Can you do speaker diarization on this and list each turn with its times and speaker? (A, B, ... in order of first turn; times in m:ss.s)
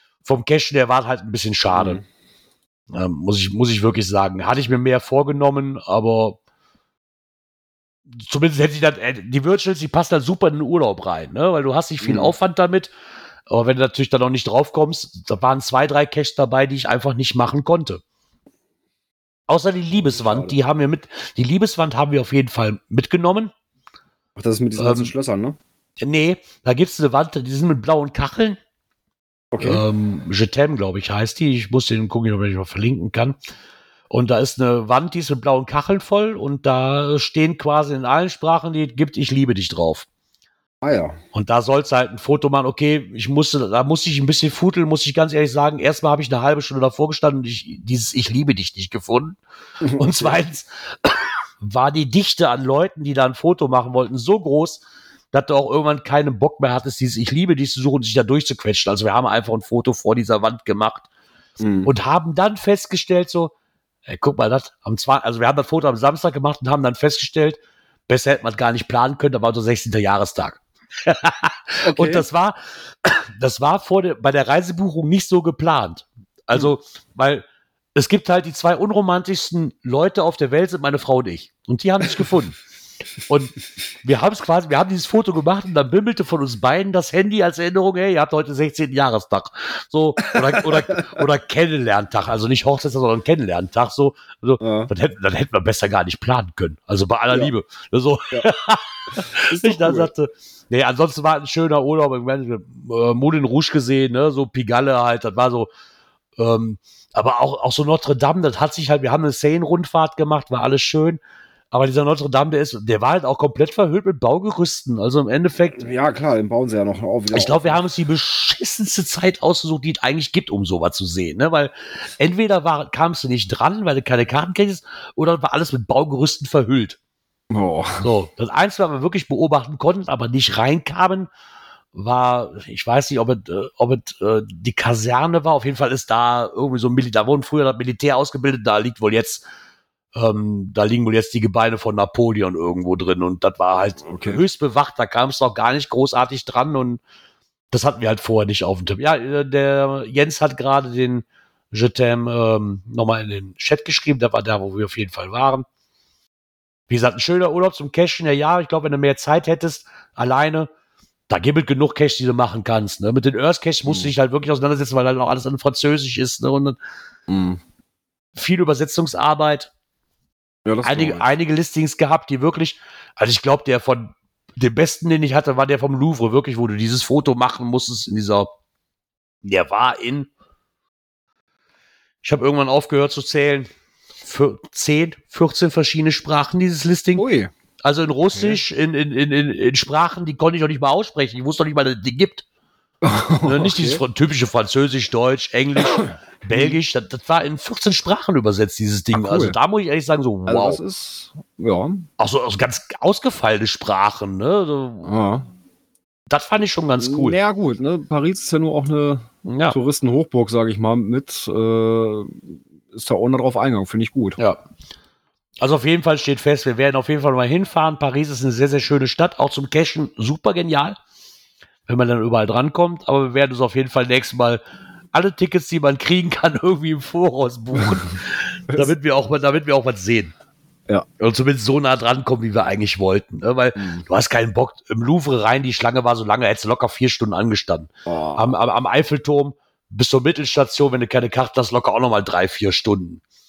0:00.2-0:02.0 A
0:01.7-0:02.0 B
0:02.9-0:06.4 A
0:08.1-0:12.9 A
0:12.0-0:12.3 B
0:13.5-0:18.0 A
0:19.5-0:23.5 A
0:19.9-0:20.5 B
0:24.4-0:25.6 B
0:24.8-0:25.1 A
0:26.0-0:28.6 A
0:29.5-0:29.8 B
0:29.6-0:33.4 A
0:34.1-0:40.0 A
0:40.8-0:41.2 B
0:41.3-0:49.4 A
0:49.8-0:50.4 B
0:49.9-1:01.1 A
1:01.6-1:01.9 B
1:01.8-1:03.5 A
1:04.0-1:22.5 A
1:11.8-1:12.3 B
1:23.3-1:45.7 A
1:30.9-1:31.2 B
1:34.6-1:34.9 B
1:39.2-1:40.1 B
1:46.4-1:51.2 A
1:51.7-1:55.8 A
1:55.8-1:57.8 B
1:57.3-2:07.0 A
2:07.5-2:08.1 B
2:08.0-2:11.3 A
2:11.9-2:19.4 A
2:20.1-2:27.0 A
2:24.0-2:24.4 B
2:27.7-2:35.6 A
2:36.9-2:40.7 A
2:41.3-2:46.8 A
2:43.8-2:44.1 B
2:47.3-2:47.6 B
2:48.3-2:49.7 A
2:50.6-2:51.3 B
2:50.8-2:58.5 A
2:59.4-3:00.3 A
3:02.2-3:03.7 A
3:04.2-3:07.2 A
3:07.2-3:07.5 B
3:07.8-3:12.4 A
3:08.3-3:08.6 B
3:13.0-3:14.0 B
3:13.4-3:20.8 A
3:16.0-3:16.8 B
3:19.1-3:19.6 B
3:20.4-3:22.1 B
3:22.2-3:25.2 A
3:25.0-3:25.5 B
3:26.3-3:27.4 A
3:27.0-3:34.4 B
3:29.4-3:29.8 A
3:35.6-3:41.0 A
3:41.9-3:44.6 A
3:45.1-3:50.3 A
3:51.2-4:03.2 A
3:53.8-3:54.0 B
3:58.0-3:58.6 B